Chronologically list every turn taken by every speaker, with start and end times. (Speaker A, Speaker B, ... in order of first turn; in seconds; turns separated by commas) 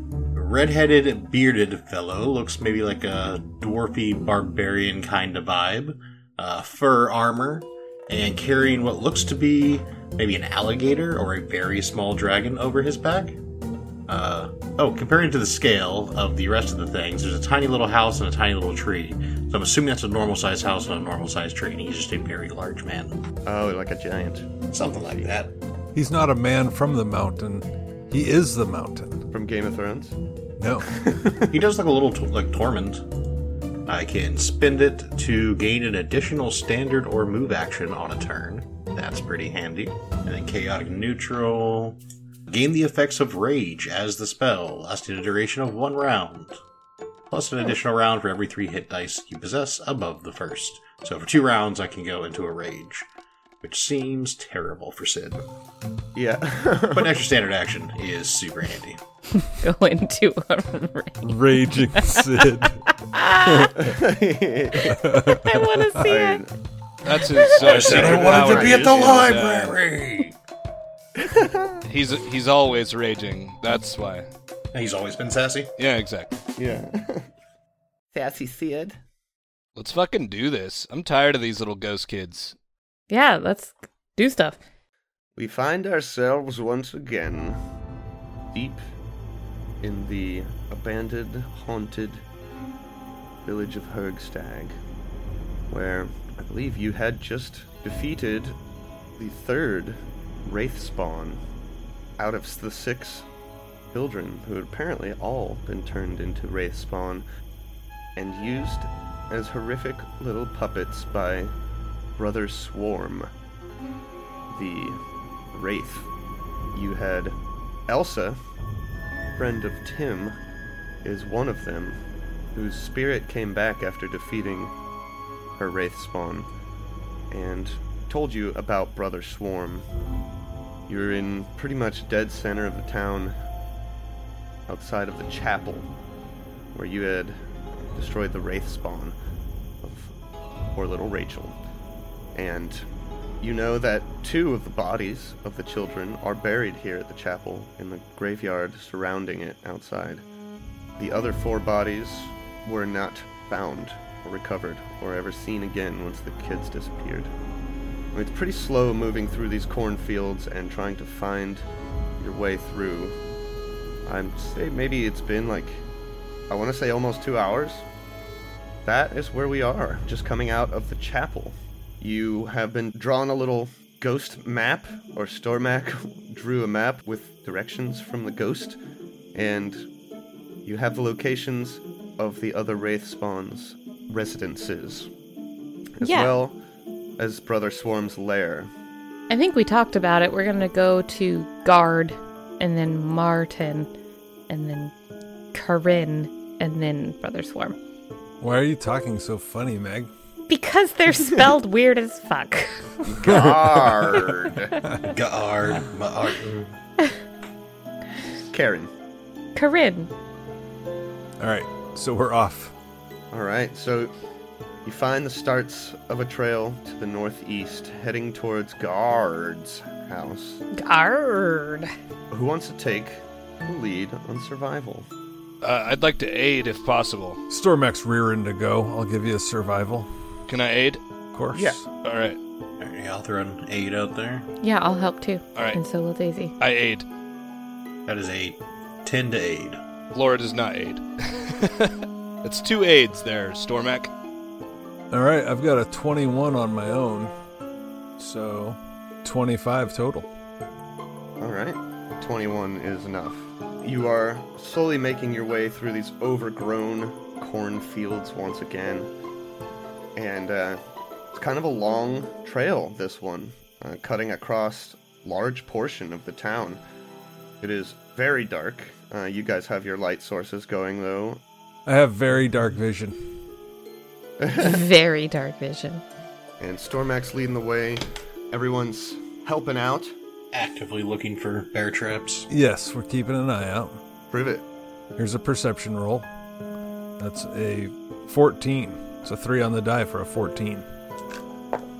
Speaker A: 0.3-13.4, Speaker A: 14.1-23.1, Speaker B: 23.4-25.3, Speaker A: 24.7-25.5, Speaker C: 25.9-29.2, Speaker B: 29.3-30.2, Speaker C: 30.6-31.0, Speaker B: 30.9-31.5, Speaker A: 31.5-33.0, Speaker A: 33.9-46.6, Speaker A: 47.3-53.0, Speaker A: 53.6-55.4, Speaker B: 56.1-57.1, Speaker A: 56.9-59.0, Speaker D: 59.4-61.3, Speaker C: 61.2-62.8, Speaker D: 63.1-63.7, Speaker C: 63.4-64.0, Speaker B: 63.8-65.1, Speaker C: 64.9-66.0, Speaker D: 65.2-66.4, Speaker B: 66.0-66.5, Speaker E: 67.0-69.8, Speaker A: 67.5-70.3, Speaker C: 67.8-69.2, Speaker B: 71.2-71.8, Speaker E: 71.8-74.3, Speaker A: 74.7-75.7, Speaker E: 75.8-76.3, Speaker B: 76.6-77.3, Speaker B: 78.1-79.0, Speaker E: 79.7-82.5, Speaker D: 83.1-84.6, Speaker B: 85.3-87.6, Speaker B: 88.5-88.8, Speaker B: 89.8-92.2, Speaker B: 93.4-94.8, Speaker B: 95.7-98.6, Speaker B: 99.2-101.4, Speaker B: 102.2-103.3, Speaker B: 103.9-107.3, Speaker B: 108.2-111.5, Speaker B: 112.2-113.3, Speaker B: 114.5-115.0, Speaker B: 115.5-116.1, Speaker B: 116.7-117.4, Speaker B: 117.9-118.4, Speaker B: 119.3-120.4, Speaker B: 121.0-122.0, Speaker B: 122.5-124.7, Speaker B: 125.6-126.5, Speaker B: 127.3-129.9, Speaker B: 130.9-133.4, Speaker B: 134.7-135.9, Speaker B: 136.7-137.4, Speaker B: 137.9-139.2, Speaker B: 139.8-140.1, Speaker B: 140.7-141.6, Speaker B: 142.3-142.8, Speaker B: 143.4-150.2, Speaker B: 151.0-157.3, Speaker B: 158.1-161.6, Speaker B: 162.2-163.2, Speaker B: 164.1-165.8, Speaker B: 166.5-167.8, Speaker B: 168.8-178.8, Speaker B: 179.3-179.8, Speaker B: 180.6-185.1, Speaker B: 186.0-186.6, Speaker D: 186.0-186.3, Speaker B: 187.2-188.7, Speaker D: 189.3-193.9, Speaker D: 194.5-194.9, Speaker D: 195.5-197.8, Speaker C: 198.4-200.1, Speaker D: 200.5-203.1, Speaker B: 203.1-204.8, Speaker C: 203.2-205.0, Speaker A: 205.0-206.7, Speaker B: 208.5-208.9, Speaker D: 209.5-210.1, Speaker C: 211.4-212.7, Speaker B: 213.3-214.1, Speaker B: 214.8-220.6, Speaker D: 220.7-221.9, Speaker B: 222.3-225.1, Speaker E: 225.6-227.4, Speaker C: 227.5-230.1, Speaker E: 230.5-231.0, Speaker C: 231.3-231.8, Speaker B: 231.5-231.8, Speaker E: 232.0-232.4, Speaker A: 232.8-234.5, Speaker D: 234.6-236.5, Speaker E: 235.5-235.8, Speaker E: 236.6-237.0, Speaker A: 238.1-239.8, Speaker E: 240.1-244.1, Speaker C: 245.1-247.3, Speaker C: 248.2-250.3, Speaker B: 251.4-259.1, Speaker B: 260.1-260.8, Speaker B: 261.3-266.8, Speaker B: 267.6-271.4, Speaker C: 271.9-273.1, Speaker B: 274.4-274.8, Speaker D: 274.6-276.0, Speaker B: 276.6-280.1, Speaker A: 280.5-282.5, Speaker C: 282.5-284.0, Speaker B: 284.3-284.6, Speaker C: 285.1-286.3, Speaker C: 287.2-290.8